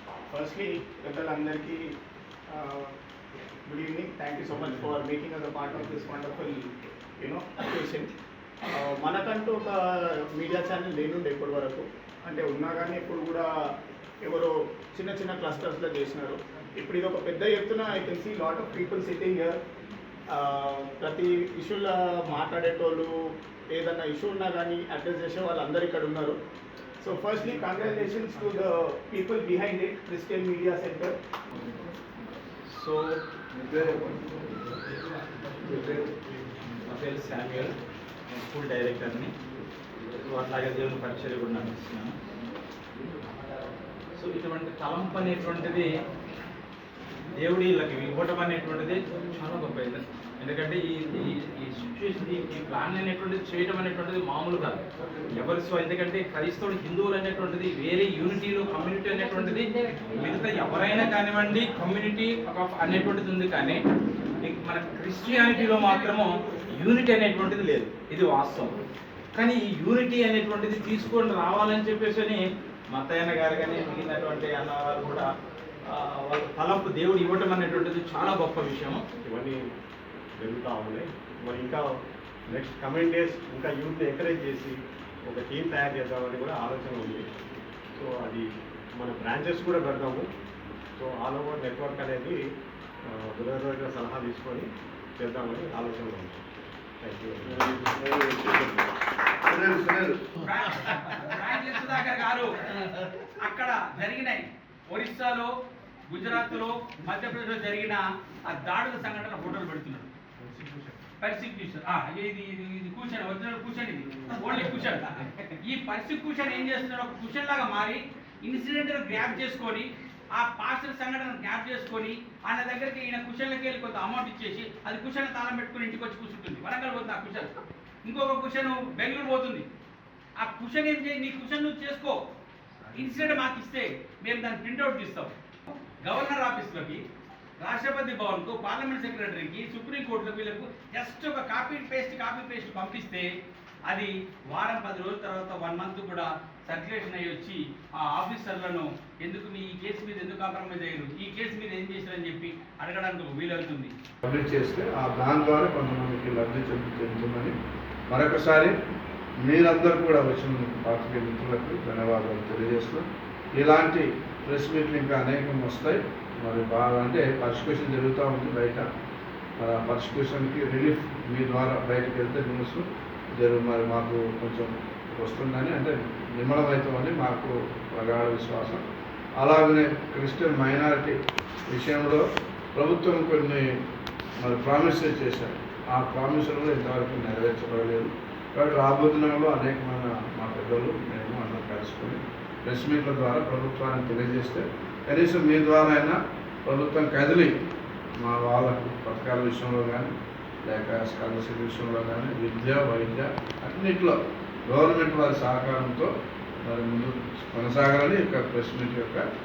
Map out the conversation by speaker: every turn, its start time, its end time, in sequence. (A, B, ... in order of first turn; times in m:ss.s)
0:00.3-0:01.8 A
0:02.5-0:02.9 A
0:03.7-0:06.6 A
0:07.2-0:08.1 A
0:08.7-0:09.8 A
0:10.4-0:13.5 A
0:14.2-0:19.5 A
0:20.3-0:23.1 A
0:23.7-0:26.4 A
0:27.0-0:31.2 A
0:32.7-0:33.2 B
0:33.6-0:34.1 C
0:35.6-0:36.2 C
0:36.8-0:37.7 B
0:38.3-0:39.3 B
0:40.2-0:42.1 B
0:44.2-0:45.9 B
0:47.3-0:54.8 B
0:55.3-1:03.8 B
1:04.4-1:08.7 B
1:09.3-1:12.4 B
1:12.9-1:15.3 B
1:15.9-1:19.0 B
1:19.3-1:19.6 D
1:20.4-1:21.8 D
1:22.5-1:24.7 D
1:25.3-1:27.2 D
1:28.0-1:28.4 D
1:29.0-1:30.2 D
1:31.0-1:32.4 D
1:33.2-1:36.4 D
1:37.0-1:37.6 D
1:37.6-1:38.7 C
1:39.5-1:40.2 C
1:40.7-1:41.5 B
1:41.6-1:42.5 E
1:43.4-1:45.5 E
1:46.1-1:50.1 E
1:51.2-1:55.0 E
1:54.2-1:54.8 B
1:55.7-2:07.4 E
2:08.1-2:09.7 E
2:10.4-2:12.2 E
2:13.0-2:15.3 E
2:16.0-2:17.0 E
2:17.6-2:23.3 E
2:23.9-2:33.9 E
2:34.2-2:37.5 C
2:38.1-2:38.7 C
2:39.4-2:43.0 C
2:43.6-2:48.8 C
2:49.6-2:52.8 C
2:53.4-2:58.8 C
2:59.4-3:01.2 C
3:01.7-3:02.2 C
3:02.8-3:03.6 C
3:04.4-3:17.5 C
3:18.2-3:20.1 C
3:20.6-3:24.2 C
3:24.7-3:26.1 C
3:26.6-3:29.2 C